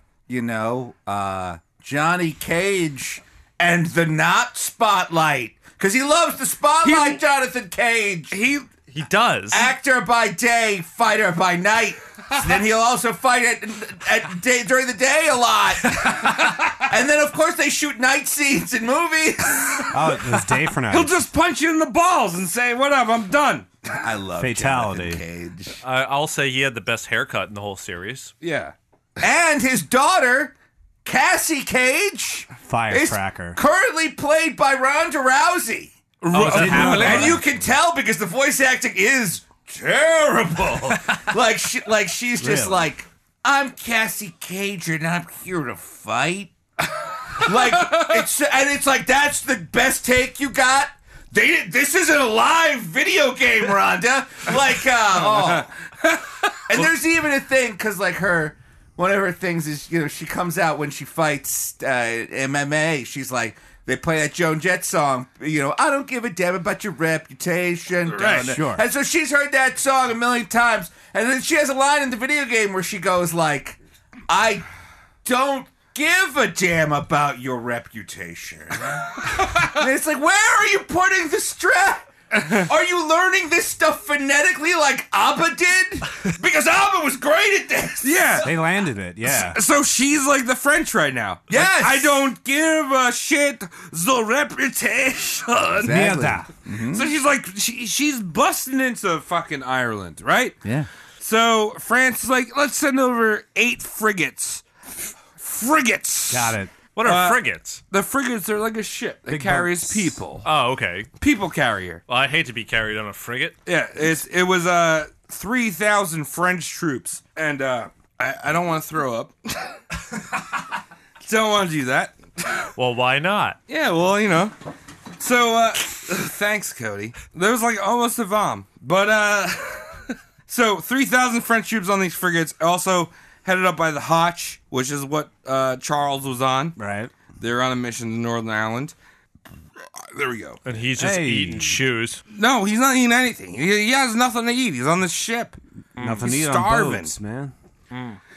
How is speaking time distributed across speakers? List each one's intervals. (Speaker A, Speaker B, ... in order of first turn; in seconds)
Speaker A: 0.3-8.3, 9.5-19.9, 24.0-25.8, 29.2-36.0, 36.6-46.5, 47.3-55.7, 56.7-73.8, 74.3-74.6, 75.2-88.3, 91.5-92.1, 95.7-97.1
Speaker B: 6.8-7.2, 8.3-8.7, 20.9-23.7, 28.4-28.7, 36.2-37.3, 47.9-48.1, 55.1-56.9, 68.1-68.5, 88.0-88.5, 89.2-96.0, 96.8-100.6, 101.2-104.6, 105.4-110.5, 111.2-112.0, 113.7-119.8, 121.2-122.7, 123.7-124.5, 125.2-136.8, 137.4-138.9, 139.9-140.6, 142.3-145.6, 146.2-147.1
Speaker C: 8.9-9.7, 25.8-28.3, 36.2-37.4, 106.9-107.8, 110.4-111.1, 112.1-113.6, 122.8-123.6, 140.6-142.2, 146.0-146.3, 147.9-148.2
Speaker D: 19.9-21.2, 24.4-25.2, 32.6-33.6, 36.4-37.5, 42.4-42.9, 68.2-68.8, 88.4-89.6, 95.8-96.5, 106.3-106.7, 109.3-110.2, 136.8-137.1, 141.0-141.8, 146.0-147.5